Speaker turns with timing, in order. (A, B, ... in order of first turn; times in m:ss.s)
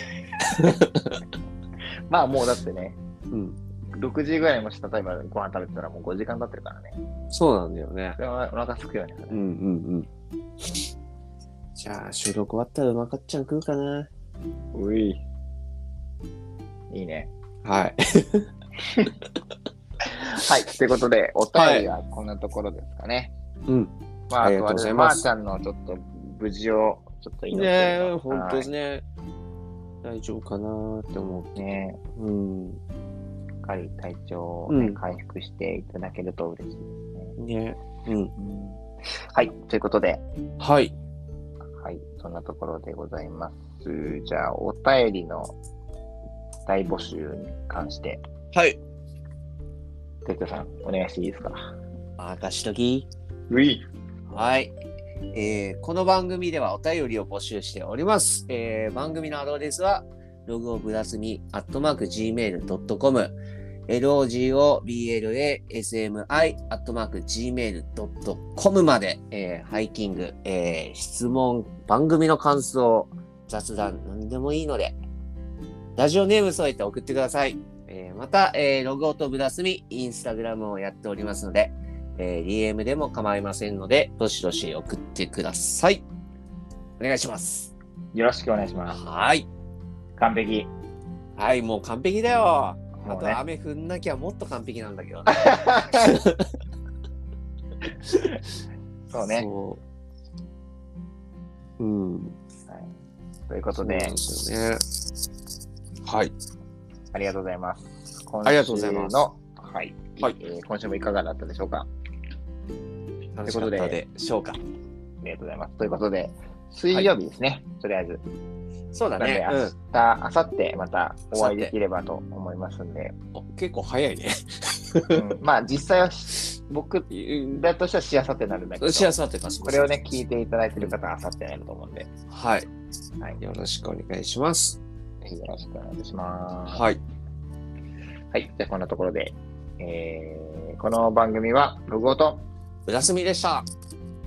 0:00.5-0:01.2 A
0:02.1-0:03.0 B
0:03.3-0:03.6 A
0:03.9-0:07.0 B
0:07.3-0:08.2 A
0:08.2-0:09.4 B
0:09.3-0:10.1 A
0:11.8-0:14.1 A
0:14.7-0:15.2 B
0:16.9-0:17.3 B
0:17.6-0:18.5 A
0:18.8-0:19.1 B
0:20.0-0:23.3 B
0:21.5-0:21.9 A
0:23.7-0:25.2 A
0:24.3-0:28.7 B
0:27.5-0:29.0 A
0:30.0-0:32.8 A
0:31.6-0:32.0 B
0:33.6-0:37.4 B
0:34.7-0:35.0 A
0:37.4-0:38.3 A
0:38.4-0:40.2 B
0:40.6-0:40.9 A
0:41.8-0:45.6 B
0:46.6-0:48.2 B
0:48.5-0:48.8 A
0:50.2-0:51.7 B
0:52.2-0:53.1 A
0:53.5-0:53.8 B
0:54.3-0:54.7 A
0:55.3-1:03.4 A
1:03.9-1:15.0 A
1:16.0-1:26.0 A
1:27.0-1:27.7 A
1:28.1-1:29.0 B
1:28.9-1:29.5 A
1:30.2-1:30.7 B
1:31.4-1:36.4 A
1:33.0-1:33.4 B
1:35.4-1:36.1 B
1:38.1-1:38.3 A
1:39.1-1:39.5 B
1:39.3-1:39.8 A
1:41.8-1:42.4 A
1:43.5-1:44.1 B
1:43.8-1:44.8 A
1:46.0-1:46.3 A
1:47.1-1:51.9 B
1:48.4-1:49.2 A
1:53.4-1:54.6 A
1:53.4-1:54.0 B
1:55.2-1:58.2 B
1:58.9-1:59.7 A
1:59.2-2:03.2 B
2:01.3-2:01.7 A
2:03.3-2:05.2 A
2:05.1-2:09.1 B
2:07.1-2:07.6 A
2:08.8-2:09.9 A
2:09.6-2:12.1 B
2:12.3-2:12.7 A
2:13.4-2:14.8 A
2:15.2-2:16.8 B
2:16.7-2:17.0 A
2:18.3-2:22.4 B
2:22.9-2:23.6 A